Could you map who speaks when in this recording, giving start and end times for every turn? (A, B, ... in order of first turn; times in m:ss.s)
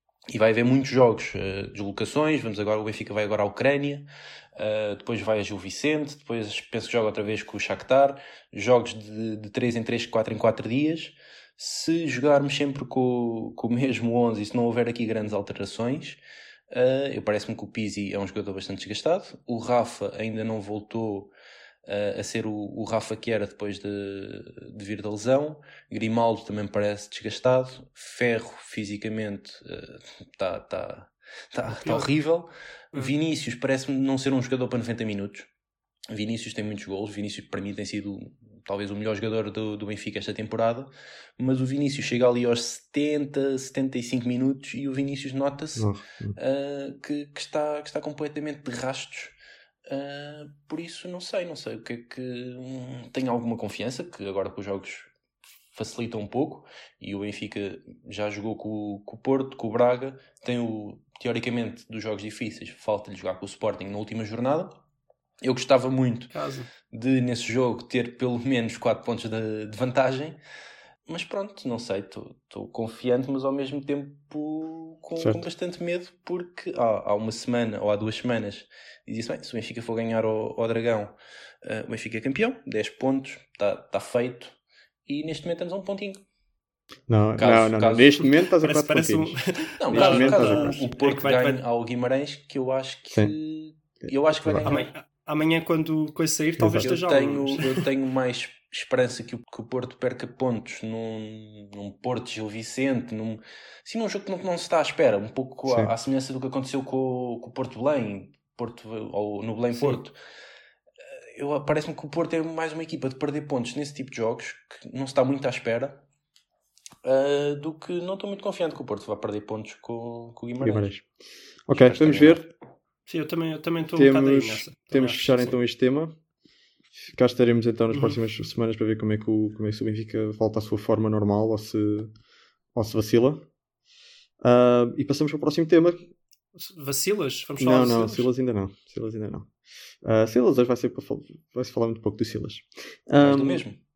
0:00.3-0:21.3 A
0:21.8-0:35.5 A
0:36.1-0:49.4 A
0:45.8-0:46.4 B
0:49.9-0:55.1 A
0:55.7-1:04.8 A
1:05.4-1:06.3 A
1:06.3-1:06.7 C
1:06.9-1:10.4 A
1:11.1-1:26.2 A
1:15.2-1:15.5 B
1:27.1-1:29.4 B
1:27.4-1:28.2 A
1:28.6-1:31.6 C
1:29.8-1:34.9 A
1:29.9-1:30.8 B
1:34.0-1:34.7 B
1:34.6-1:37.8 C
1:36.6-1:36.9 B
1:36.8-1:50.2 A
1:45.7-1:45.9 B
1:49.8-1:50.0 B
1:51.4-1:56.0 A
1:57.0-2:00.9 A
2:00.6-2:01.0 B
2:01.7-2:02.5 B
2:01.7-2:02.5 A
2:03.1-2:05.6 C
2:04.0-2:06.2 B
2:07.0-2:12.1 B
2:07.9-2:08.2 C
2:12.8-2:13.5 B
2:14.4-2:16.1 B
2:16.6-2:18.3 C
2:17.6-2:19.5 B
2:20.0-2:23.7 B
2:23.2-2:23.8 A